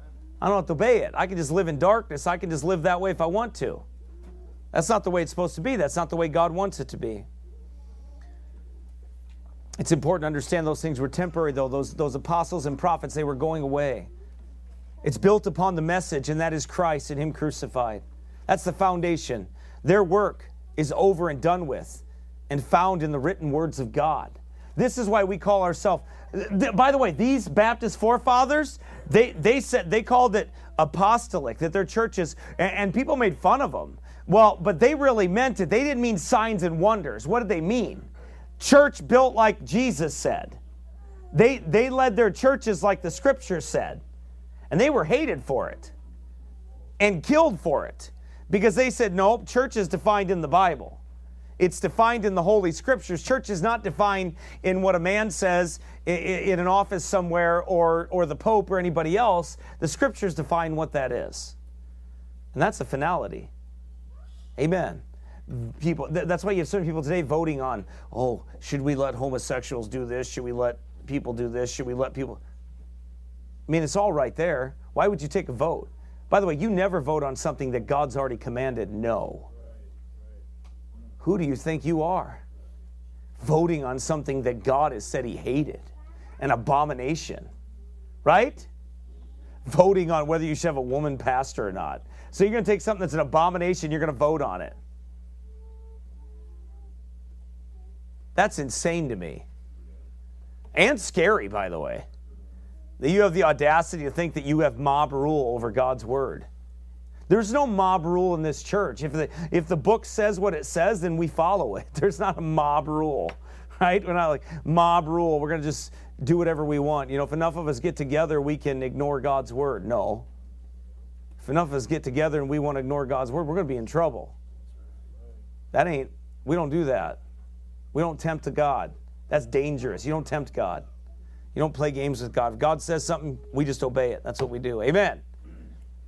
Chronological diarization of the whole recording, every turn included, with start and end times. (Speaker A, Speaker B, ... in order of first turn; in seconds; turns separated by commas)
Speaker A: 0.4-3.8, Speaker A: 4.7-7.2, Speaker A: 9.8-14.1, Speaker A: 15.0-38.1, Speaker A: 38.6-40.6, Speaker A: 41.3-44.0, Speaker A: 44.7-45.9, Speaker A: 47.0-51.0, Speaker A: 51.6-61.5, Speaker A: 62.5-63.5, Speaker A: 64.6-72.4, Speaker A: 73.7-79.5, Speaker A: 81.2-82.4, Speaker A: 83.4-85.9, Speaker A: 86.4-87.5, Speaker A: 88.2-88.7, Speaker A: 89.6-94.8, Speaker A: 98.3-99.5, Speaker A: 100.7-102.0, Speaker A: 103.0-106.5, Speaker A: 107.3-120.3, Speaker A: 121.4-124.3, Speaker A: 125.7-127.2, Speaker A: 127.9-130.8, Speaker A: 131.5-135.2